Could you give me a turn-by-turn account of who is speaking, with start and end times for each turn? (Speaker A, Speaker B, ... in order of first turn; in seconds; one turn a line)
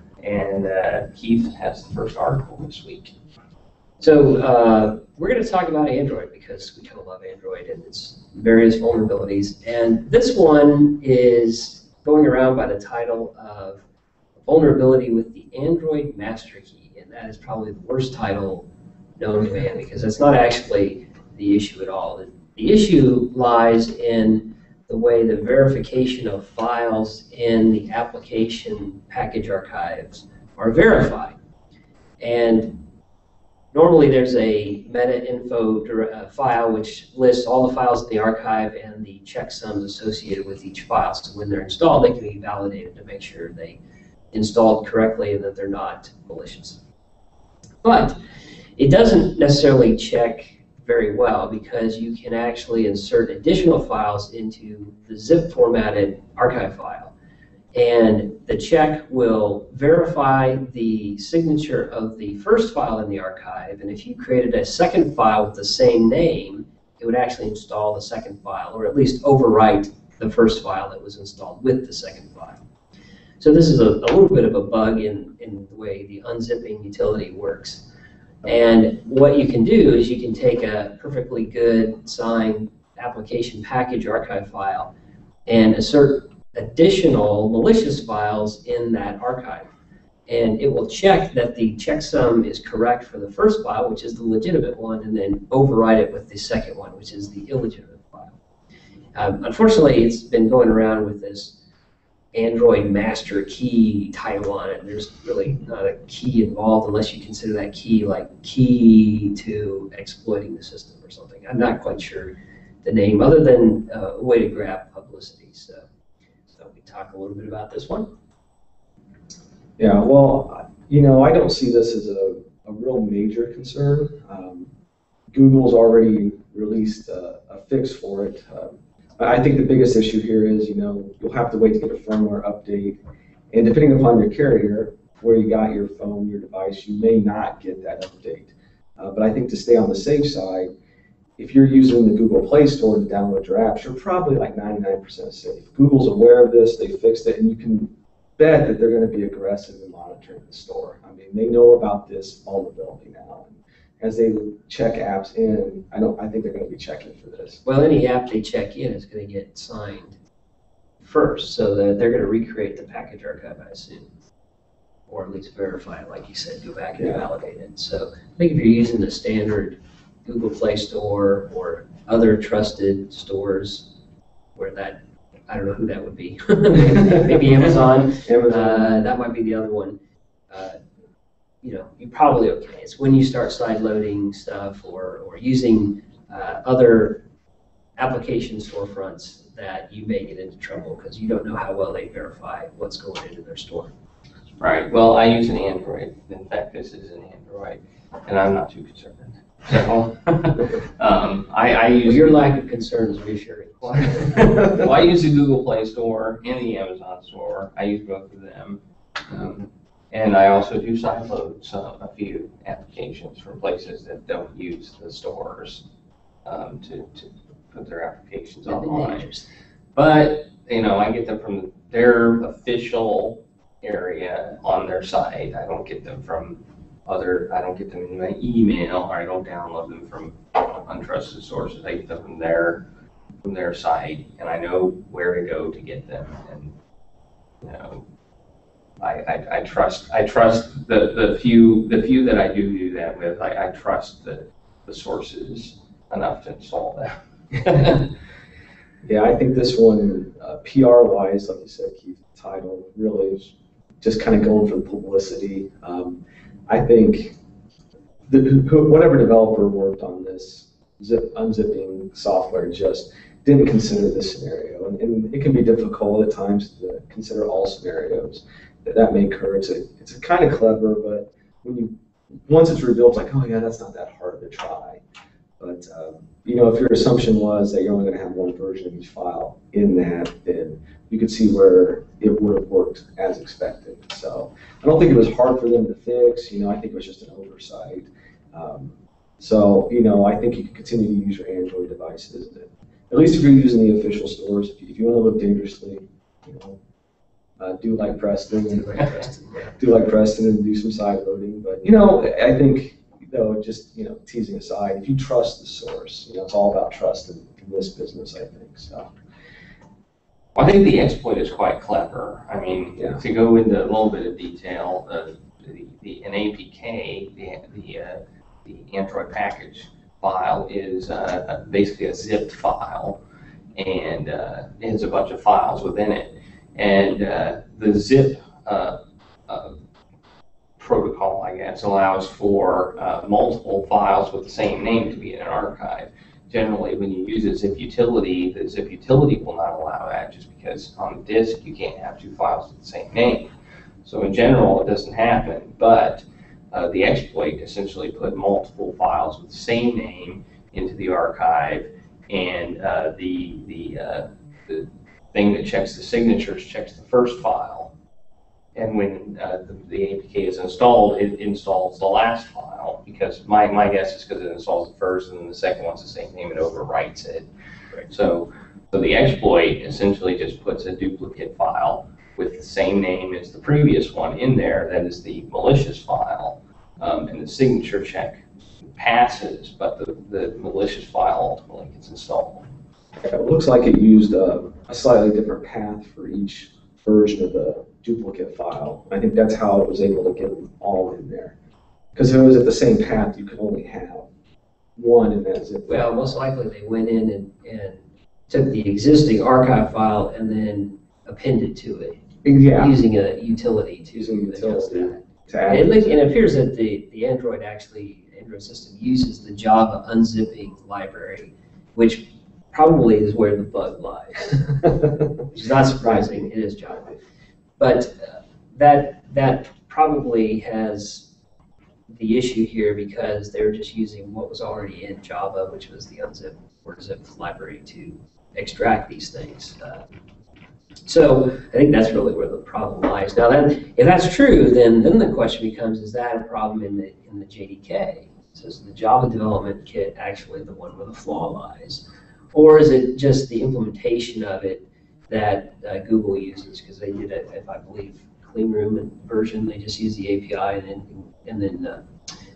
Speaker A: 0.2-3.1
Speaker B: 4.0-13.8
Speaker B: 14.4-18.7
Speaker B: 19.2-31.4
Speaker B: 32.2-32.8
Speaker B: 33.7-43.8
Speaker B: 44.3-46.8
Speaker B: 47.8-48.2
Speaker B: 48.8-57.1
Speaker B: 57.7-72.6
Speaker B: 73.4-77.9
Speaker B: 78.4-84.9
Speaker B: 85.5-89.7
Speaker B: 90.3-98.4
Speaker B: 99.2-101.6
Speaker B: 102.3-115.9
Speaker B: 116.5-118.1
Speaker C: 119.8-124.7
Speaker C: 125.3-133.0
Speaker C: 133.5-140.7
Speaker C: 141.4-157.6
Speaker B: 157.7-160.2
Speaker B: 161.0-164.1
Speaker B: 165.1-173.9
Speaker C: 167.0-167.3
Speaker B: 174.6-180.0
Speaker C: 177.0-179.1
Speaker B: 180.5-180.8
Speaker B: 181.6-187.2
Speaker B: 188.0-193.9
Speaker A: 194.6-202.5
Speaker B: 202.0-204.7
Speaker A: 203.8-215.9
Speaker A: 216.4-219.3
Speaker B: 218.7-219.5
Speaker A: 219.9-232.8
Speaker A: 233.4-236.7
Speaker A: 237.6-238.0
Speaker A: 239.0-248.1
Speaker C: 249.0-257.4
Speaker C: 258.3-275.0
Speaker C: 275.6-296.8
Speaker C: 297.6-299.2
Speaker B: 298.7-299.8
Speaker C: 299.8-309.1
Speaker A: 310.6-323.2
Speaker A: 323.8-329.8
Speaker A: 330.8-343.5
Speaker A: 344.0-357.9
Speaker A: 358.8-367.5
Speaker A: 368.1-378.4
Speaker A: 378.9-382.7
Speaker C: 383.2-391.6
Speaker C: 392.1-394.3
Speaker C: 395.0-396.1
Speaker B: 395.9-414.9
Speaker C: 402.4-402.9
Speaker C: 404.1-406.2
Speaker B: 415.4-417.2
Speaker B: 417.8-421.3
Speaker B: 422.1-430.0
Speaker B: 431.1-452.0